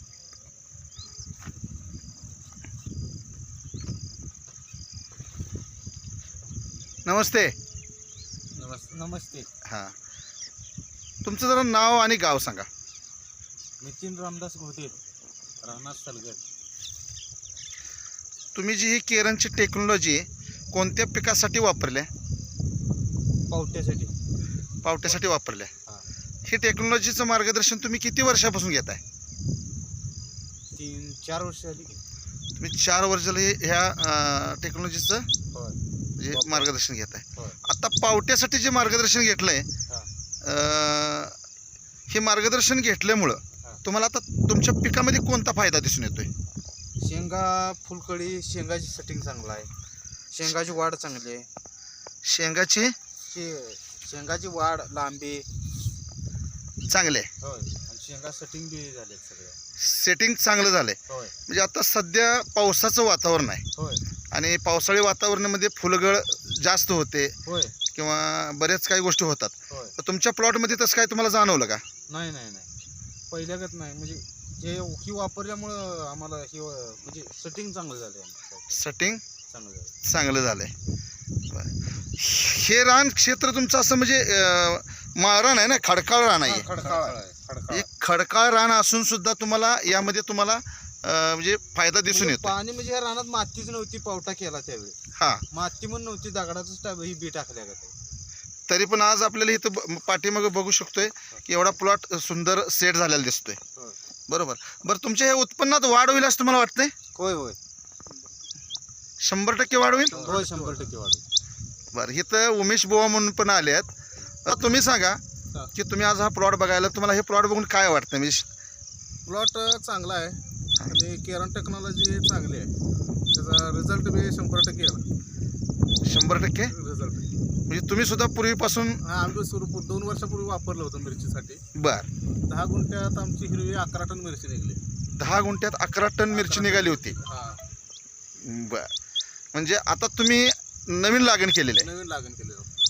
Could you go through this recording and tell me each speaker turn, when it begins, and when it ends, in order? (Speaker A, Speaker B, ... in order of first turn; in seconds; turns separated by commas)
Speaker A: 7.0-7.6, Speaker B: 8.6-9.5, Speaker A: 9.7-9.9, Speaker A: 11.2-12.7, Speaker B: 13.8-15.0, Speaker B: 15.6-16.4, Speaker A: 18.6-22.1, Speaker B: 23.5-24.1, Speaker A: 24.8-25.7, Speaker A: 26.4-29.0, Speaker B: 30.7-32.0, Speaker A: 32.6-35.3, Speaker B: 35.5-35.8, Speaker A: 36.2-39.7, Speaker B: 36.3-36.7, Speaker A: 40.4-41.4, Speaker A: 42.1-46.3, Speaker B: 47.0-49.7, Speaker B: 50.3-51.5, Speaker A: 52.2-53.0, Speaker B: 53.1-55.5, Speaker A: 56.9-57.3, Speaker B: 57.4-59.6, Speaker A: 59.8-63.6, Speaker B: 61.1-61.3, Speaker B: 63.8-64.0, Speaker A: 64.3-67.4, Speaker B: 67.5-67.8, Speaker A: 67.9-71.8, Speaker B: 69.7-70.0, Speaker B: 72.1-72.7, Speaker B: 73.3-78.8, Speaker A: 78.7-79.2, Speaker B: 79.5-79.9, Speaker A: 80.0-80.7, Speaker A: 81.5-86.9, Speaker B: 86.4-87.8, Speaker A: 87.7-92.5, Speaker B: 92.1-95.0, Speaker A: 95.2-95.5, Speaker B: 95.5-97.9, Speaker A: 98.7-103.6, Speaker A: 104.3-107.0, Speaker B: 107.1-107.6, Speaker A: 109.2-110.4, Speaker C: 110.1-110.9, Speaker B: 110.1-111.2, Speaker A: 111.9-113.9, Speaker A: 114.5-115.2, Speaker A: 115.7-118.5, Speaker C: 119.3-122.7, Speaker C: 123.3-125.0, Speaker A: 126.0-126.7, Speaker C: 126.7-127.3, Speaker A: 127.7-129.0, Speaker C: 129.0-131.6, Speaker A: 131.8-132.1, Speaker C: 132.5-134.8, Speaker A: 135.2-137.2, Speaker C: 136.3-137.6, Speaker A: 138.4-138.9, Speaker A: 139.5-141.9, Speaker C: 141.8-142.7